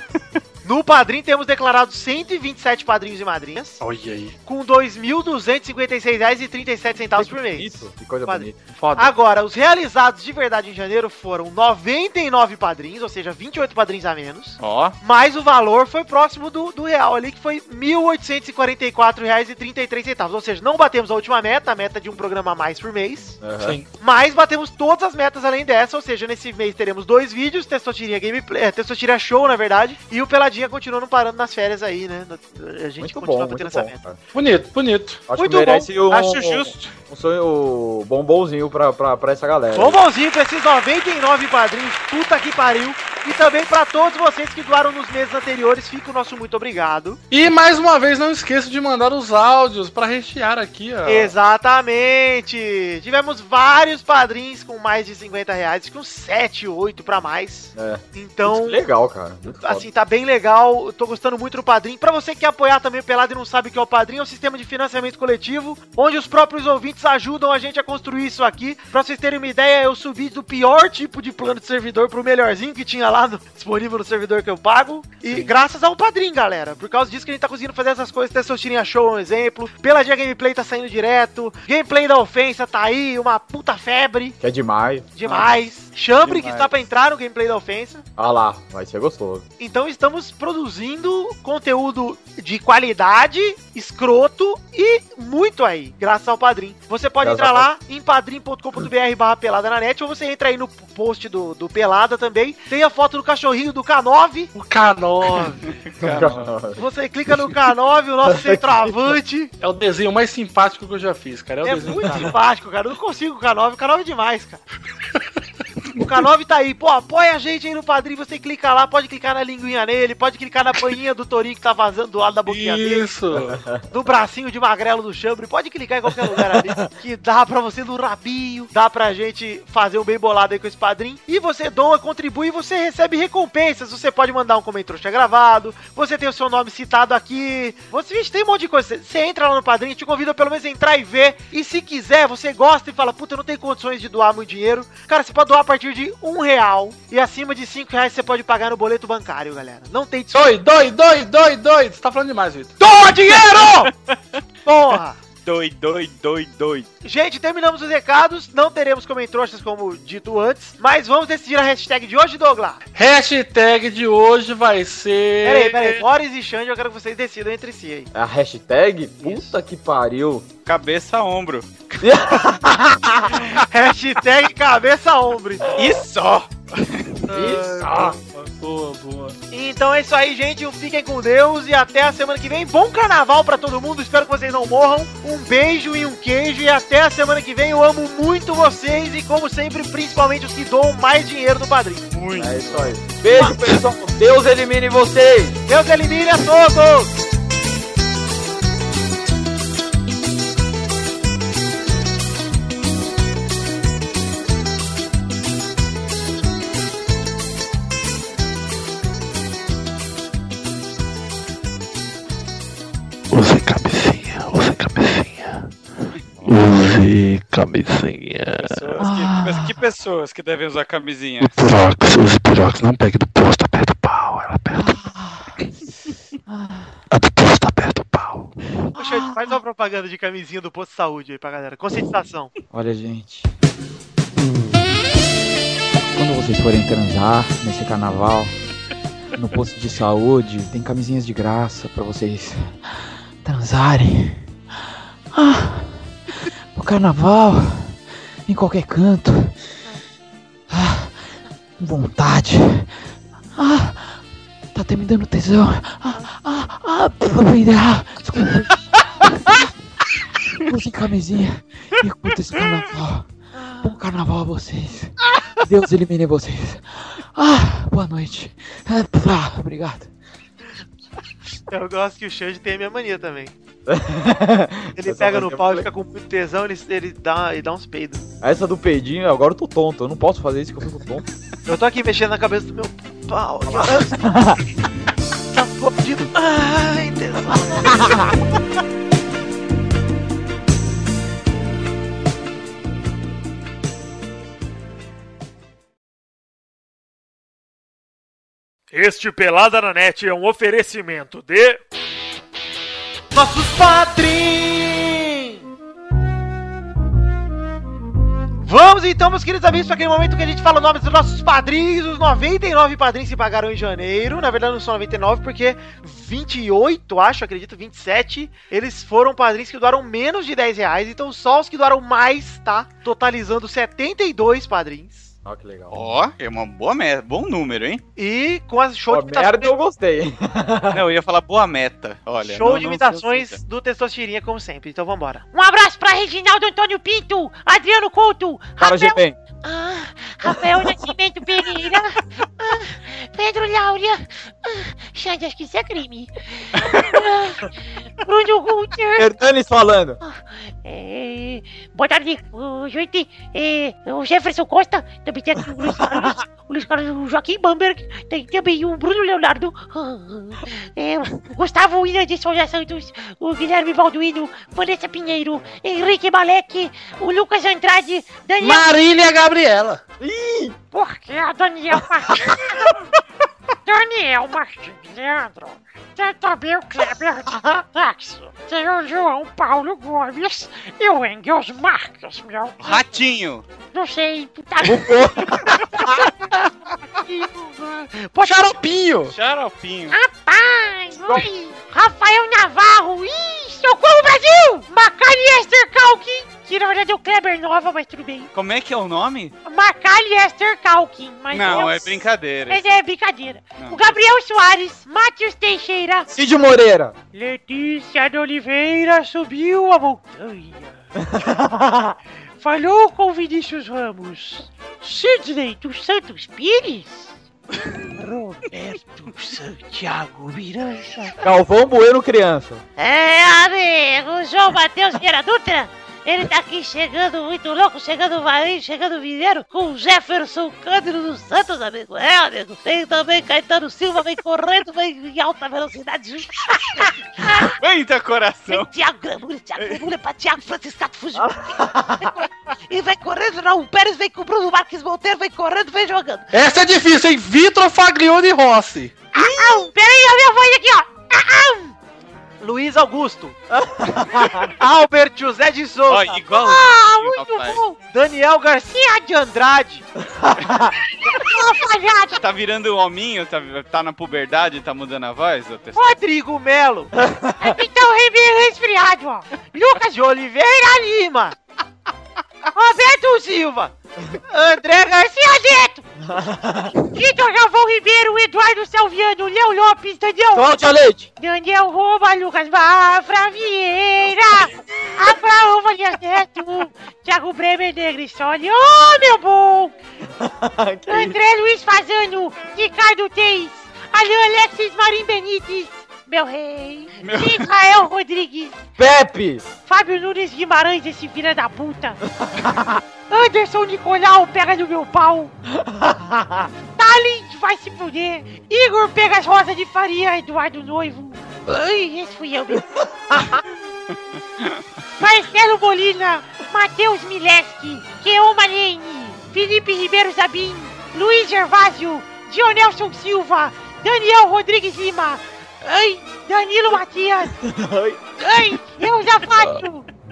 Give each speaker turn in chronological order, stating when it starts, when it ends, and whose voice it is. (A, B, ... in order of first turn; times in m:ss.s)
0:00.6-0:03.8 A
0:03.8-0:04.4 B
0:04.4-0:23.4 A
0:07.1-0:08.6 C
0:08.7-0:09.2 B
0:14.6-0:15.0 D
0:23.4-0:23.8 C
0:23.6-0:23.9 B
0:24.0-0:34.0 A
0:33.0-0:34.2 C
0:34.3-0:35.3 B
0:35.3-0:40.0 C
0:35.3-0:35.9 A
0:36.1-0:36.9 D
0:39.7-0:47.2 A
0:47.3-0:51.3 B
0:51.1-0:58.8 A
0:57.8-0:59.9 C
0:59.5-1:24.4 A
1:15.3-1:15.5 B
1:24.4-1:25.1 C
1:25.2-1:28.0 A
1:26.2-1:26.7 D
1:28.2-1:29.4 C
1:29.6-1:44.5 A
1:37.2-1:37.7 C
1:44.6-1:46.3 B
1:45.8-1:46.5 D
1:46.0-1:46.8 C
1:46.8-1:49.5 A
1:48.2-1:49.1 C
1:49.6-1:52.3 B
1:51.6-1:54.6 A
1:56.0-2:03.2 A
2:02.5-2:03.6 B
2:03.5-2:03.8 C
2:03.9-2:30.6 A
2:06.3-2:06.8 C
2:30.3-2:32.8 B
2:32.8-2:33.9 A
2:33.3-2:34.4 D
2:34.6-2:35.2 A
2:35.4-2:36.9 D
2:37.0-2:42.8 A
2:43.0-2:46.0 B
2:45.4-2:48.1 A
2:48.1-2:50.4 C
2:50.7-2:52.0 D
2:52.0-2:53.4 C
2:53.6-2:55.7 A
2:55.7-2:57.1 D
2:57.3-2:59.4 B
2:57.3-2:58.2 C
2:59.5-3:12.2 A
3:12.1-3:12.9 D
3:12.4-3:15.6 C
3:15.7-3:17.1 A
3:33.3-3:35.7 E
3:36.4-3:39.0 E
3:38.6-3:41.6 D
3:39.0-3:39.8 C
3:41.4-3:44.9 E
3:44.7-3:45.5 C
3:46.5-3:46.9 C
3:47.1-3:48.5 E
3:48.9-3:52.5 A
3:49.0-3:49.4 C
3:52.7-3:53.5 C
3:56.1-3:58.5 C
3:59.4-4:04.5 C
4:05.3-4:06.1 C
4:06.7-4:09.6 C
4:10.7-4:11.2 C
4:11.8-4:13.0 C
4:13.6-4:14.2 C
4:14.7-4:18.8 C
4:20.6-4:23.3 C
4:23.8-4:30.1 C
4:31.7-4:33.5 A
4:33.9-4:35.9 C
4:35.0-4:38.2 A
4:38.4-4:41.3 C
4:41.7-4:44.3 A
4:43.7-4:44.6 C
4:45.5-4:48.3 A
4:48.0-4:48.4 C
4:58.9-5:01.8 A
5:03.3-5:05.6 A
5:08.6-5:25.3 A
5:25.4-5:26.1 C
5:25.9-5:28.0 D
5:28.2-5:29.7 A
5:29.1-5:31.1 C
5:30.9-5:33.6 D
5:32.4-5:35.5 A
5:35.5-5:49.3 F
5:38.8-5:39.4 C
5:49.2-5:50.2 C
5:50.2-6:08.9 F
6:08.6-6:10.0 B
6:10.2-6:10.8 C
6:10.9-6:12.4 F
6:12.4-6:12.8 C
6:13.8-6:23.1 F
6:22.8-6:23.6 D
6:23.9-6:25.2 F
6:24.8-6:26.1 C
6:27.3-6:28.7 F
6:28.4-6:29.3 B
6:29.3-6:30.2 D
6:30.1-6:38.5 F
6:38.5-6:39.5 D
6:39.6-6:46.3 F
6:41.5-6:42.9 D
6:46.3-6:47.1 C
6:47.3-6:51.0 F
6:51.2-6:52.2 C
6:52.6-6:57.3 F
6:58.1-7:01.4 F
7:01.4-7:02.8 C
7:03.0-7:17.8 F
7:17.7-7:18.9 D
7:18.7-7:21.6 F
7:19.8-7:20.0 D
7:21.3-7:22.4 C
7:22.9-7:26.5 F
7:26.5-7:29.2 B
7:29.3-7:29.9 C
7:29.3-7:32.0 F
7:32.6-7:33.6 A
7:33.7-7:34.7 C
7:34.7-7:36.4 A
7:36.1-7:37.8 D
7:36.5-7:38.0 F
7:38.1-7:40.1 A
7:40.4-7:40.9 C
7:41.4-7:42.4 F
7:42.4-7:46.0 D
7:46.0-7:47.1 A
7:47.2-7:47.8 C
7:47.6-7:50.0 F
7:50.0-7:51.6 A
7:52.9-7:53.9 A
7:54.5-7:54.8 A
7:54.7-7:56.1 F
7:56.2-7:57.0 C
7:57.1-8:00.8 F
8:00.5-8:01.3 C
8:01.4-8:09.9 F
8:10.4-8:11.4 C
8:11.1-8:18.8 F
8:17.2-8:17.7 D
8:19.0-8:19.8 C
8:19.9-8:22.2 F
8:22.4-8:23.0 C
8:23.3-8:25.5 F
8:25.7-8:26.7 C
8:27.0-8:32.9 F
8:33.3-8:33.6 C
8:34.4-8:34.8 D
8:35.2-8:47.6 F
8:47.5-8:48.2 C
8:48.4-8:50.1 F